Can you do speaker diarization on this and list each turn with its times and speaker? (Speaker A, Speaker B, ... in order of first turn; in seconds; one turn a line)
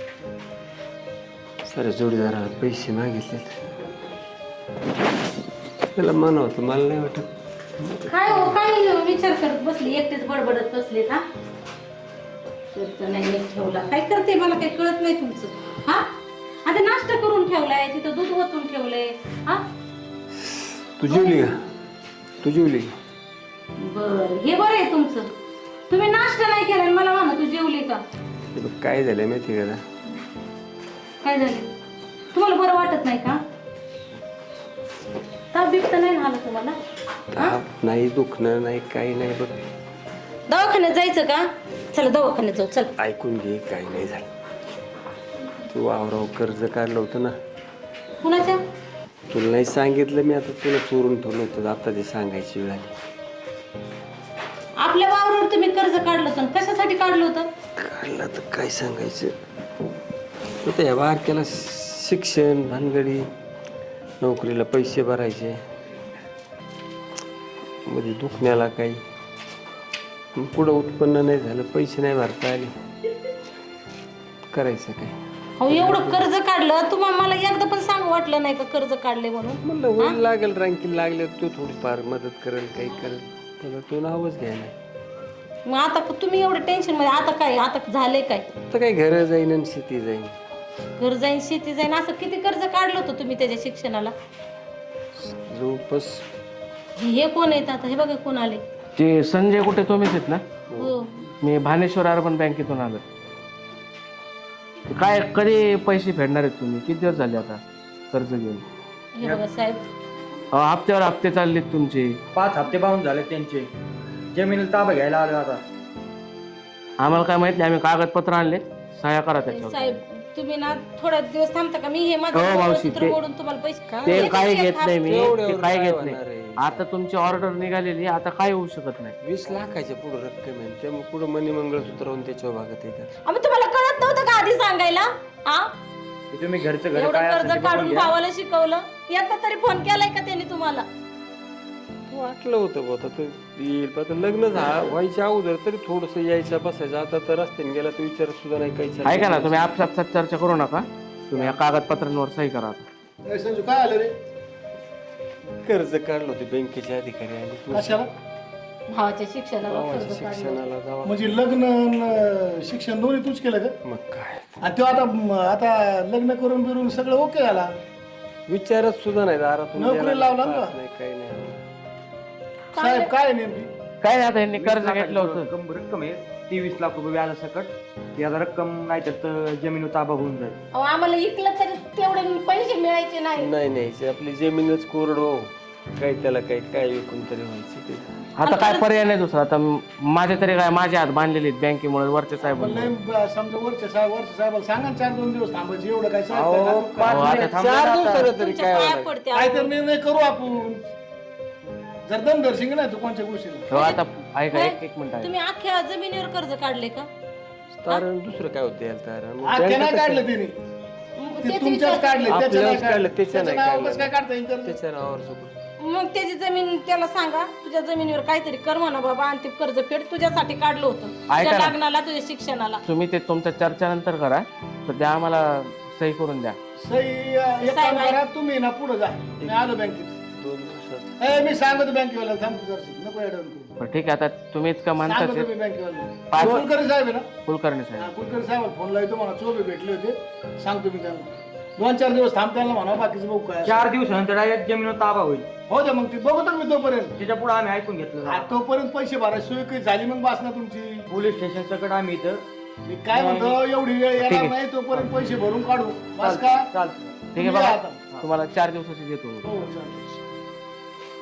Speaker A: 1.7-3.6
Speaker A: 6.0-7.3
Speaker A: 7.8-8.5
Speaker B: 8.1-11.2
Speaker B: 12.7-16.1
Speaker B: 16.6-19.6
Speaker A: 20.4-21.6
Speaker B: 21.1-21.4
Speaker A: 22.4-22.9
Speaker B: 23.8-25.3
Speaker B: 25.9-28.0
Speaker A: 28.5-29.8
Speaker B: 31.2-31.7
Speaker B: 32.3-33.4
Speaker B: 35.5-36.8
Speaker A: 37.3-39.6
Speaker B: 40.5-42.9
Speaker A: 43.0-44.3
Speaker A: 45.7-47.4
Speaker B: 48.2-48.6
Speaker A: 49.3-52.9
Speaker B: 54.8-57.5
Speaker A: 57.8-59.4
Speaker A: 60.6-63.3
Speaker A: 64.2-65.6
Speaker A: 67.9-69.0
Speaker A: 70.3-72.7
Speaker A: 74.5-75.2
Speaker B: 75.6-80.2
Speaker A: 75.7-76.3
Speaker A: 79.6-84.8
Speaker B: 85.7-88.5
Speaker A: 88.7-90.3
Speaker B: 91.0-94.1
Speaker A: 95.3-96.2
Speaker B: 97.0-98.6
Speaker C: 99.0-100.4
Speaker A: 100.7-101.0
Speaker B: 100.8-101.2
Speaker C: 101.4-103.0
Speaker C: 104.9-107.6
Speaker C: 108.1-108.6
Speaker B: 109.2-109.9
Speaker C: 110.5-112.2
Speaker D: 112.3-113.7
Speaker D: 114.3-115.6
Speaker C: 117.0-120.0
Speaker B: 119.5-125.0
Speaker C: 122.3-123.2
Speaker A: 123.9-124.5
Speaker C: 124.0-129.2
Speaker A: 125.0-126.8
Speaker A: 129.2-133.1
Speaker B: 133.3-135.7
Speaker D: 136.3-138.1
Speaker B: 136.9-140.9
Speaker A: 142.1-149.9
Speaker C: 149.1-152.8
Speaker E: 153.3-154.1
Speaker A: 155.7-158.0
Speaker E: 157.7-158.1
Speaker B: 158.9-160.6
Speaker A: 159.7-161.4
Speaker E: 161.0-163.8
Speaker A: 163.8-164.5
Speaker E: 164.6-167.7
Speaker A: 168.5-171.6
Speaker E: 169.8-170.8
Speaker B: 172.8-173.1
Speaker E: 172.8-173.7
Speaker C: 174.0-175.5
Speaker D: 174.5-180.6
Speaker B: 180.7-183.5
Speaker A: 183.4-188.1
Speaker C: 188.4-192.9
Speaker B: 188.4-189.0
Speaker E: 192.4-197.4
Speaker D: 196.3-199.1
Speaker C: 197.1-197.7
Speaker B: 198.1-199.7
Speaker E: 199.3-200.8
Speaker E: 202.1-203.7
Speaker C: 203.7-205.3
Speaker B: 203.7-207.1
Speaker A: 207.8-210.2
Speaker E: 209.4-210.6
Speaker B: 211.2-212.4
Speaker E: 211.4-214.8
Speaker A: 212.3-214.1
Speaker A: 214.6-215.6
Speaker B: 215.8-222.8
Speaker C: 221.3-221.8
Speaker C: 222.9-226.6
Speaker E: 226.8-230.1
Speaker B: 227.6-228.2
Speaker A: 230.3-231.1
Speaker E: 231.2-233.7
Speaker C: 233.8-235.5
Speaker E: 235.0-237.3
Speaker C: 236.3-236.7
Speaker C: 237.4-238.1
Speaker E: 238.0-243.9
Speaker D: 243.7-245.5
Speaker E: 245.7-247.2
Speaker D: 247.2-248.6
Speaker E: 248.3-251.1
Speaker D: 251.1-252.4
Speaker E: 252.8-256.7
Speaker D: 253.1-253.5
Speaker C: 254.2-254.5
Speaker D: 256.2-257.1
Speaker E: 257.3-258.1
Speaker C: 257.3-259.6
Speaker E: 259.4-260.1